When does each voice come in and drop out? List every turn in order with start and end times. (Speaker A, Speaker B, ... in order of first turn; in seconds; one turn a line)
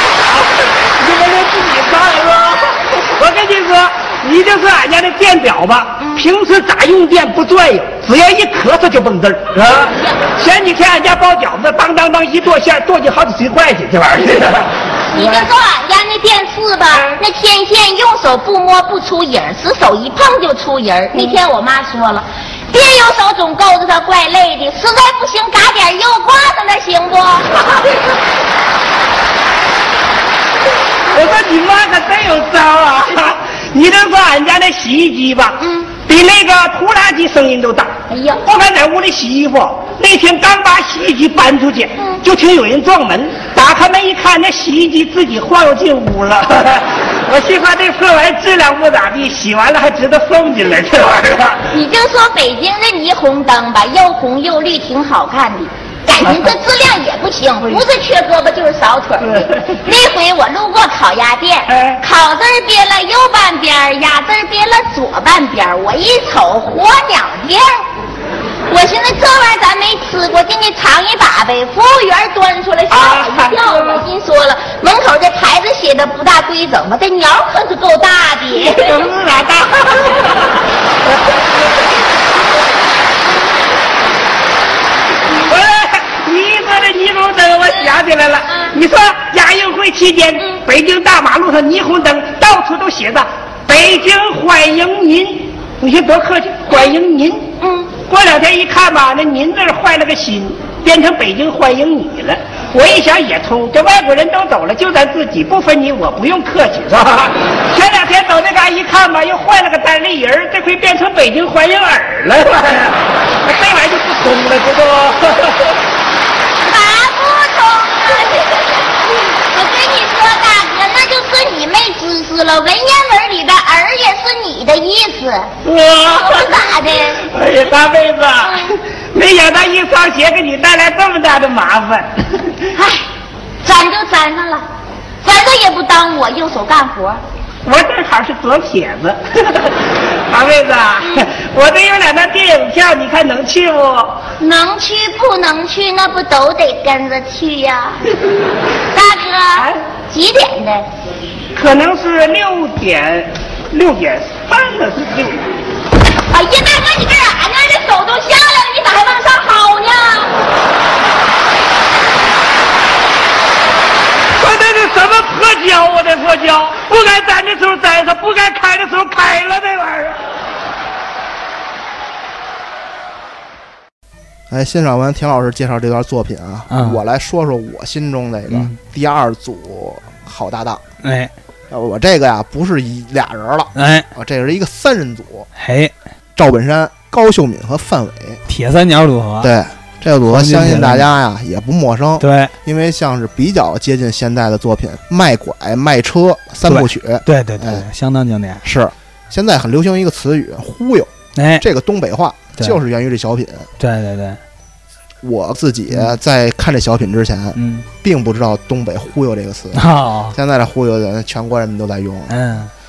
Speaker A: 0.3-15.5
Speaker B: 6.0-6.3
Speaker B: 9.8-10.3
Speaker B: 15.1-27.6
Speaker A: 31.1-51.6
Speaker B: 35.6-35.9
Speaker B: 38.1-38.4
Speaker B: 51.7-67.8
Speaker A: 56.2-56.5
Speaker A: 57.6-57.9
Speaker A: 59.2-59.8
Speaker A: 61.7-62.0
Speaker B: 68.7-79.1
Speaker A: 72.9-74.0
Speaker A: 78.5-80.5
Speaker A: 85.5-115.6
Speaker B: 97.6-98.0
Speaker B: 116.6-125.5
Speaker A: 125.7-132.4
Speaker B: 126.1-127.2
Speaker B: 128.4-128.7
Speaker B: 132.8-133.1
Speaker B: 133.6-134.7
Speaker B: 135.2-137.2
Speaker A: 137.7-139.7
Speaker A: 140.3-144.3
Speaker B: 144.4-148.0
Speaker B: 148.9-150.9
Speaker A: 151.6-155.6
Speaker B: 156.3-160.3
Speaker A: 164.4-170.2
Speaker C: 174.5-180.8
Speaker D: 176.7-177.0
Speaker D: 178.5-178.8
Speaker D: 181.0-181.3
Speaker C: 181.7-185.5
Speaker D: 183.8-184.1
Speaker D: 185.6-185.9
Speaker C: 186.3-188.4
Speaker D: 188.5-189.5
Speaker C: 189.4-197.9
Speaker D: 190.3-191.1
Speaker D: 192.2-192.5
Speaker D: 196.7-198.7
Speaker C: 198.6-203.7
Speaker D: 201.4-201.7
Speaker D: 203.8-204.4
Speaker C: 205.2-212.3
Speaker D: 207.6-207.9
Speaker D: 209.7-210.4
Speaker D: 212.3-212.7